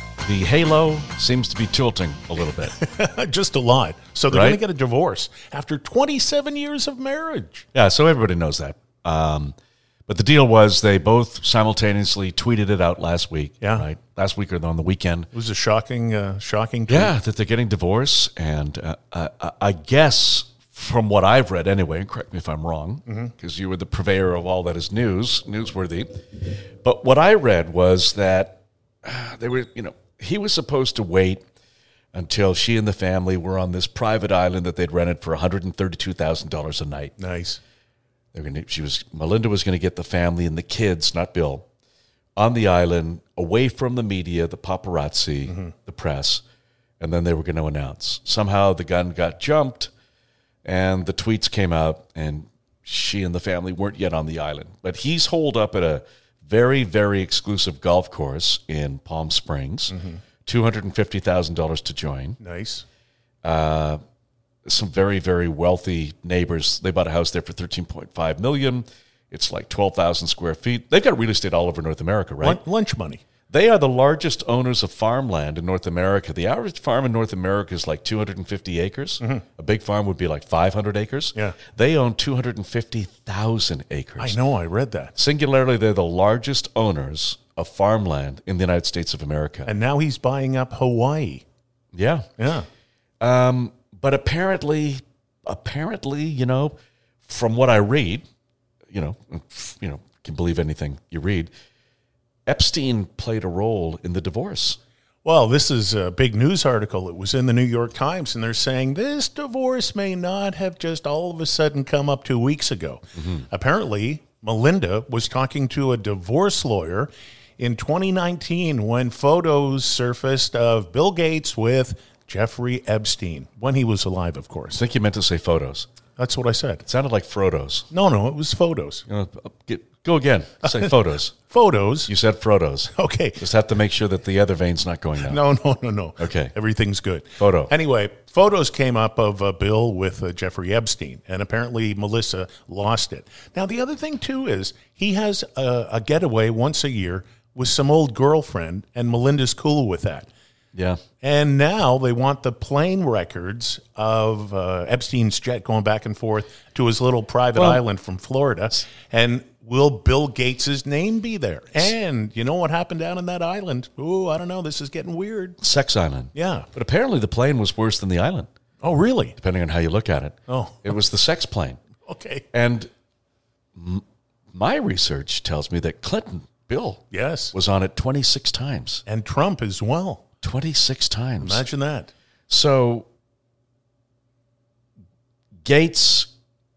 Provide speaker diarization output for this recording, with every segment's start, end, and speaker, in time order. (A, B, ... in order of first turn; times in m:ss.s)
0:00.2-0:02.8 A
0:02.7-0:07.7 B
0:04.3-0:04.6 A
0:07.7-0:09.6 A
0:10.1-0:15.3 A
0:13.6-0:13.9 B
0:15.3-0:17.2 B
0:16.9-0:31.4 A
0:23.1-0:23.3 B
0:32.1-0:37.2 A
0:37.2-0:37.6 B
0:38.3-0:41.6 A
0:42.4-0:46.4 A
0:47.0-0:49.9 A
0:50.6-1:02.4 A
0:59.9-1:00.2 B
1:02.4-1:02.8 B
1:03.4-1:04.0 A
1:04.7-1:12.6 A
1:12.4-1:13.2 B
1:13.5-1:24.4 A
1:24.2-1:25.1 B
1:25.2-1:29.7 A
1:29.7-1:31.4 B
1:31.9-1:32.3 A
1:32.4-1:32.7 B
1:33.2-1:38.2 A
1:38.9-1:41.5 A
1:42.5-1:44.8 A
1:45.2-2:04.8 B
2:04.7-2:05.9 A
2:06.2-2:06.8 B
2:06.8-2:07.9 A
2:07.9-2:09.0 B
2:09.1-2:11.3 A
2:11.5-2:12.1 B
2:12.1-2:15.4 A
2:12.9-2:13.4 B
2:15.2-2:30.3 B
2:16.2-2:16.5 A
2:17.4-2:17.7 A
2:30.8-2:31.0 A
2:31.2-2:45.6 B
2:45.6-2:48.5 A
2:46.3-2:46.7 B
2:48.8-2:49.4 B
2:49.4-2:51.8 A
2:50.5-2:50.9 B
2:52.0-2:52.4 B
2:52.5-2:52.9 A
2:53.8-2:59.0 A
2:57.1-2:57.5 B
2:59.1-3:00.2 B
3:00.4-3:01.6 A
3:01.4-3:02.1 B
3:02.5-3:03.1 A
3:05.6-3:06.3 A